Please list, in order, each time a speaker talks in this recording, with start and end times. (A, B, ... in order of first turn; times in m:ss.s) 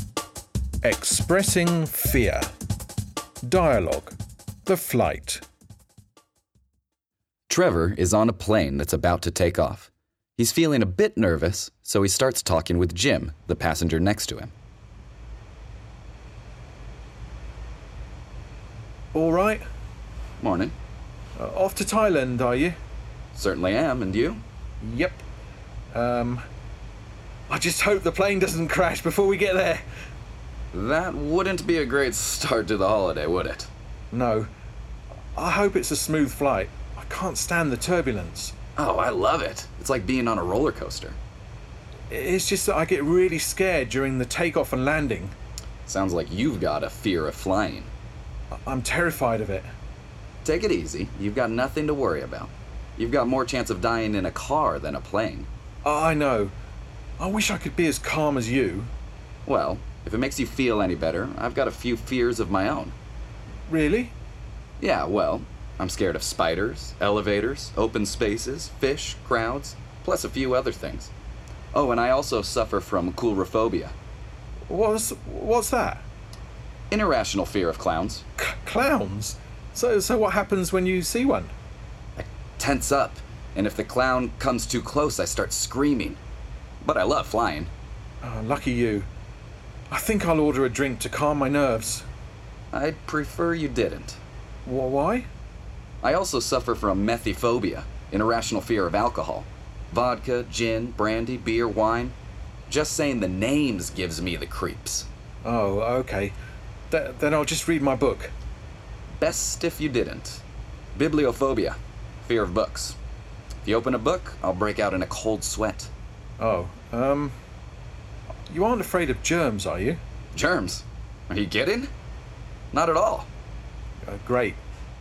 0:00.8-0:02.5 A
0:03.5-0:05.4 A
0:07.5-0:14.5 B
0:19.1-0:19.6 A
0:20.4-0:20.8 B
0:21.4-0:22.8 A
0:23.4-0:24.4 B
0:24.8-0:25.2 A
0:25.9-0:26.4 A
0:27.5-0:29.8 A
0:30.7-0:33.7 B
0:34.1-0:34.5 A
0:35.4-0:38.5 A
0:38.8-0:41.2 B
0:42.1-0:45.4 A
0:45.8-0:47.9 B
0:48.7-0:49.7 A
0:50.4-0:55.5 B
0:55.8-0:56.5 A
0:57.2-0:58.9 A
0:59.5-1:03.0 B
1:03.7-1:04.2 A
1:04.8-1:11.1 B
1:11.7-1:13.9 B
1:14.7-1:16.0 A
1:16.9-1:18.2 B
1:18.4-1:21.5 A
1:22.2-1:26.2 B
1:26.8-1:27.7 B
1:28.2-1:29.1 A
1:29.9-1:32.1 A
1:32.7-1:34.2 B
1:34.6-1:35.3 A
1:36.0-1:42.2 B
1:42.7-1:45.1 B
1:45.4-1:46.4 A
1:46.9-1:48.3 A
1:49.2-1:50.4 B
1:51.0-1:53.0 B
1:53.6-1:55.9 B
1:56.4-1:57.4 A
1:58.5-2:00.0 A
2:00.3-2:01.9 B
2:02.7-2:03.3 B
2:04.1-2:04.6 A